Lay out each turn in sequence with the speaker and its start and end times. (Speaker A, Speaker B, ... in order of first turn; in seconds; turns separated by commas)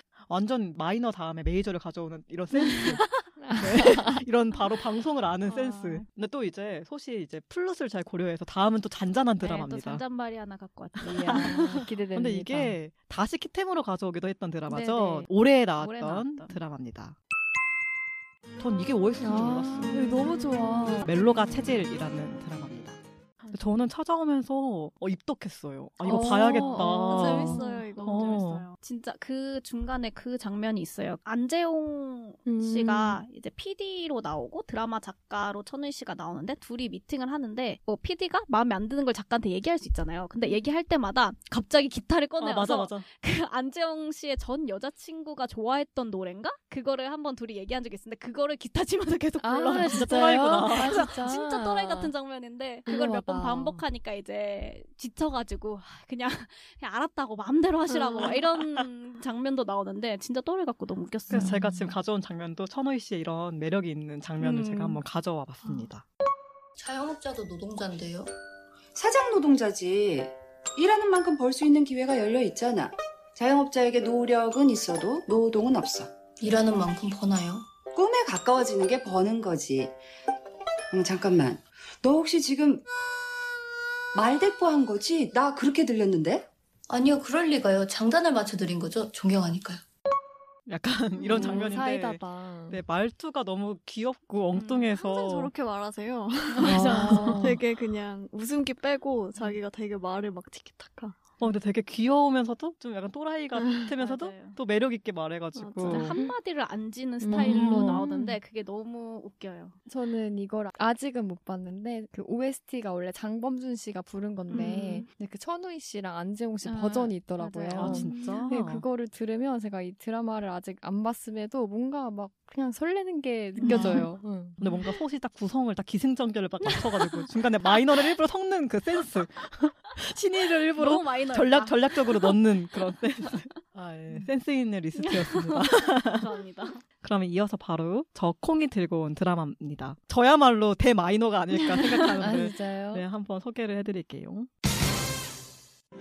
Speaker A: 0.3-10.0, Speaker B: 3.4-4.2, Speaker C: 5.5-6.0, Speaker C: 9.4-11.6, Speaker B: 11.0-12.8, Speaker A: 11.2-17.1, Speaker B: 14.7-15.2, Speaker C: 15.8-16.6, Speaker A: 18.6-20.3, Speaker B: 19.2-21.1, Speaker A: 20.9-23.0, Speaker A: 23.5-28.6, Speaker B: 26.0-27.7, Speaker C: 26.4-27.3, Speaker D: 26.7-28.4, Speaker C: 27.9-61.6, Speaker B: 32.5-33.2, Speaker A: 42.4-43.0, Speaker B: 49.4-52.1, Speaker A: 49.6-51.1, Speaker B: 52.9-53.8, Speaker D: 57.9-58.3, Speaker A: 58.2-58.8, Speaker A: 61.3-66.0, Speaker B: 61.3-61.9, Speaker E: 66.8-68.3, Speaker F: 68.9-76.2, Speaker E: 76.4-77.7, Speaker F: 77.9-80.0, Speaker F: 80.9-82.8, Speaker F: 84.1-86.5, Speaker E: 86.9-89.8, Speaker A: 90.7-95.5, Speaker B: 91.3-92.8, Speaker C: 94.5-94.8, Speaker D: 94.7-101.2, Speaker C: 96.5-97.4, Speaker B: 96.6-97.6, Speaker A: 101.4-106.2, Speaker D: 103.5-103.9, Speaker C: 104.0-104.6, Speaker D: 105.5-106.1, Speaker C: 105.8-109.8, Speaker B: 107.2-108.4, Speaker A: 107.3-108.0, Speaker B: 109.9-124.6, Speaker D: 114.5-115.0, Speaker C: 116.6-118.3, Speaker A: 117.7-118.8, Speaker A: 123.6-124.1, Speaker D: 123.6-123.9, Speaker C: 123.7-124.0, Speaker A: 124.6-136.3, Speaker C: 130.8-132.3, Speaker C: 134.9-136.8, Speaker A: 137.0-144.5, Speaker B: 142.2-143.0